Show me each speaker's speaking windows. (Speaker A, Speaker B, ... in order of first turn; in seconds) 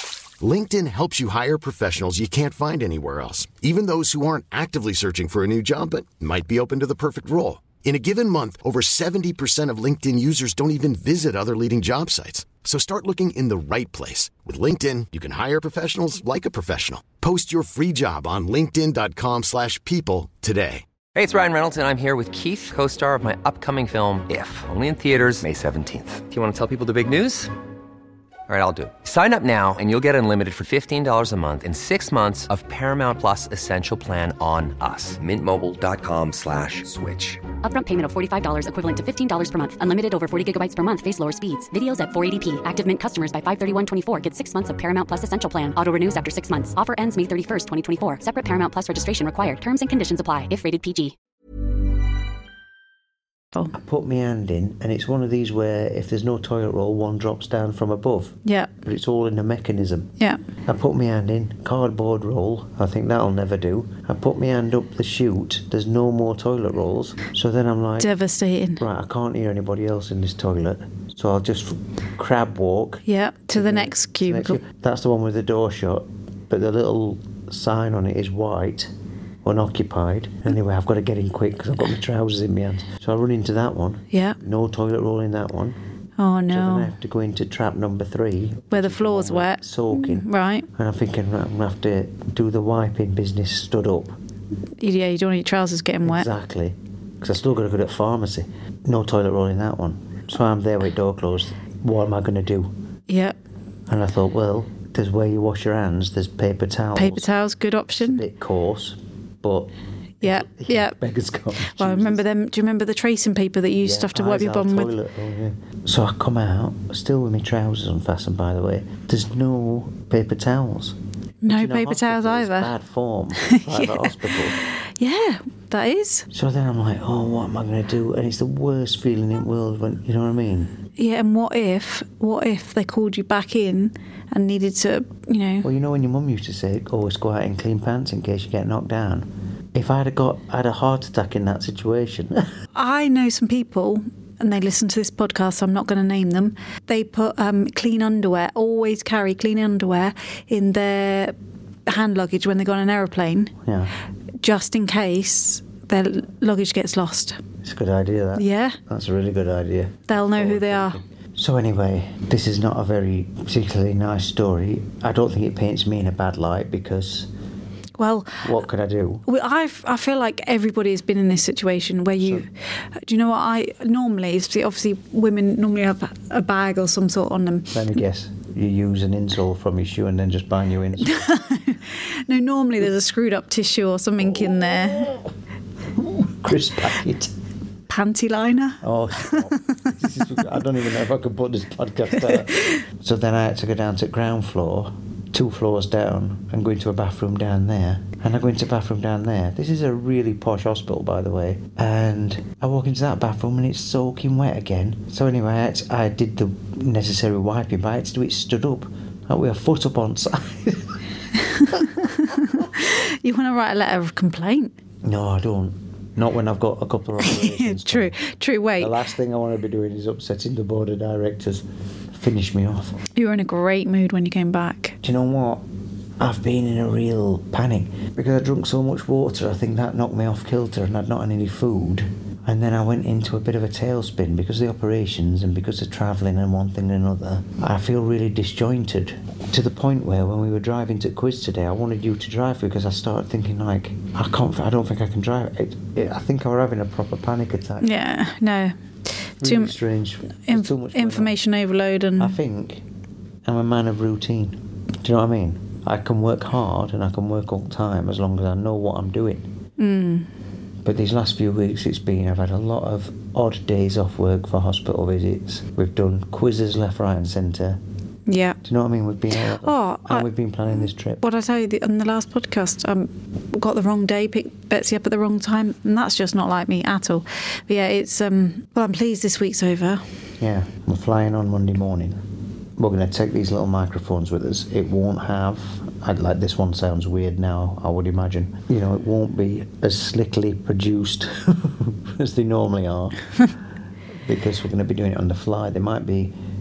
Speaker A: 0.4-20.8
Speaker B: 21.1-27.5, 28.5-37.4
Speaker C: 37.6-51.1
Speaker D: 53.7-60.1, 60.7-68.1, 68.8-78.9, 79.4-85.8, 86.5-94.2, 96.0-102.7, 103.9-107.3, 108.0-112.2, 113.8-124.6, 126.3-130.7, 135.6-142.5, 153.6-153.9, 157.6-167.3, 168.4-169.2, 172.2-172.4, 177.7-181.2, 186.0-187.3, 188.8-211.0, 215.0-218.2, 218.8-223.0, 225.0-225.6, 226.2-247.9, 249.4-251.3, 252.2-252.8, 253.4-259.5, 260.8-267.8, 268.6-271.2, 280.4-282.2, 282.8-293.2, 294.2-296.3
Speaker E: 58.4-58.7, 68.0-68.8, 73.0-74.6, 84.1-84.4, 86.2-86.9, 88.7-90.7, 94.8-96.3, 103.1-103.4, 106.9-108.2, 110.2-110.9, 111.7-114.9, 121.4-122.7, 123.5-124.0, 124.6-126.2, 131.0-135.7, 142.7-151.3, 151.9-153.5, 154.4-157.3, 158.3-158.8, 160.1-161.0, 168.0-168.5, 169.2-172.5, 173.1-177.7, 181.0-185.2, 187.9-189.7, 212.2-214.7, 217.2-218.9, 223.1-224.9, 247.8-248.7, 249.4-249.7, 250.4-252.4, 259.8-260.3, 268.3-268.6, 269.6-270.3, 271.2-280.0